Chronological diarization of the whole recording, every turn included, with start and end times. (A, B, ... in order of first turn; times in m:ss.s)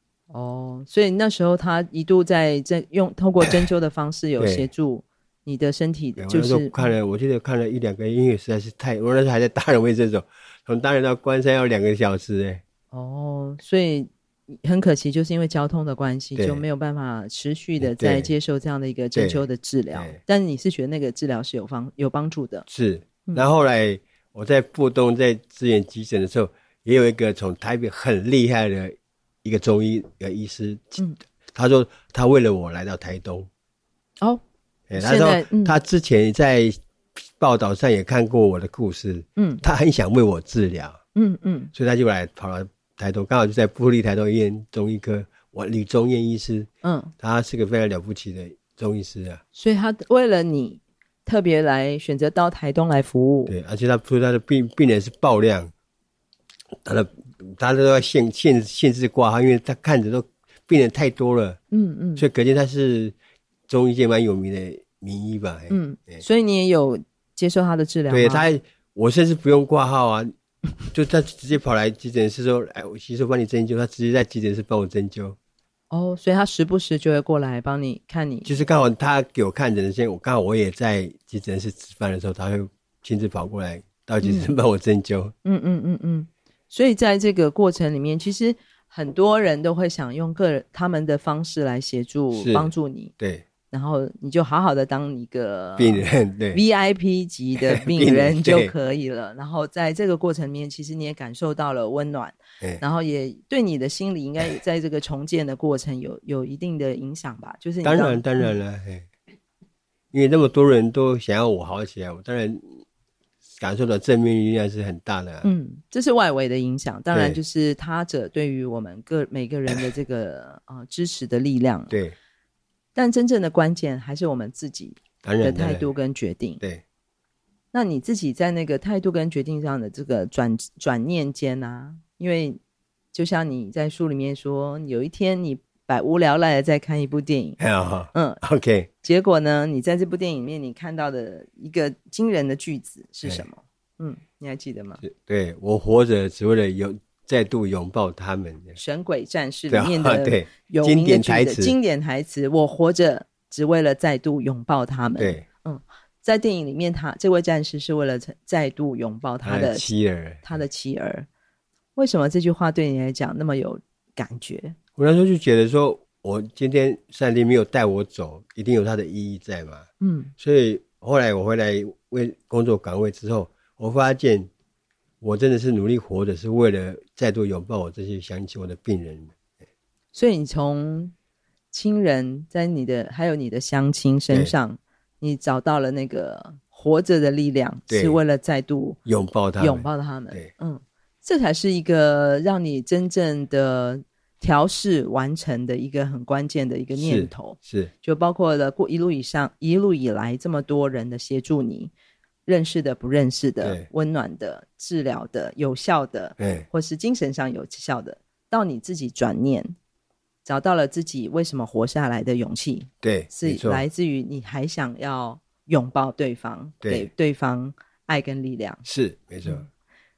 0:00.3-0:06.9 A
0:04.4-0:04.7 B
0:06.2-0:12.6 B
0:12.9-0:22.7 A
0:16.4-0:16.6 B
0:17.8-0:18.3 B
0:19.1-0:20.2 B
0:22.7-0:31.0 B
0:31.5-0:33.5 B
0:34.9-0:41.0 B
0:34.9-0:35.8 A
0:39.4-0:39.6 A
0:41.1-0:41.7 A
0:41.7-0:49.4 B
0:46.8-0:47.1 A
0:49.5-0:53.5 A
0:53.4-0:55.7 B
0:56.8-1:01.6 B
1:01.7-1:02.2 A
1:02.2-1:03.1 B
1:03.7-1:06.2 B
1:05.7-1:08.5 A
1:08.1-1:10.3 B
1:10.9-1:15.4 B
1:15.9-1:18.5 A
1:18.4-1:25.3 B
1:24.2-1:24.5 A
1:25.4-1:33.1 A
1:32.3-1:33.4 B
1:33.7-1:48.5 A
1:35.8-1:36.6 B
1:37.6-1:38.7 B
1:47.8-1:49.1 B
1:50.1-1:52.8 B
1:53.6-1:55.5 B
1:55.4-2:01.9 A
1:57.1-1:57.4 B
2:01.9-2:02.2 B
2:02.9-2:06.6 A
2:05.2-2:05.9 B
2:07.7-2:12.6 A
2:13.1-2:17.6 A
2:17.6-2:18.9 B
2:18.1-2:18.4 A
2:19.0-2:25.0 A
2:25.0-2:28.8 B
2:28.8-2:39.9 A
2:29.7-2:31.7 B
2:35.2-2:35.4 B
2:39.4-2:40.5 B
2:40.4-2:41.3 A
2:42.0-2:44.8 A
2:45.0-2:54.5 B
2:50.0-2:50.3 A
2:55.2-2:59.3 B
3:00.1-3:01.1 A
3:01.7-3:09.0 A
3:07.9-3:08.2 B
3:09.0-3:10.5 B
3:09.6-3:21.9 A
3:16.9-3:17.9 B
3:22.4-3:29.7 A
3:23.6-3:23.9 B
3:26.4-3:26.7 B
3:30.4-3:38.8 A
3:33.0-3:33.8 B
3:36.8-3:37.1 B
3:38.8-3:39.6 B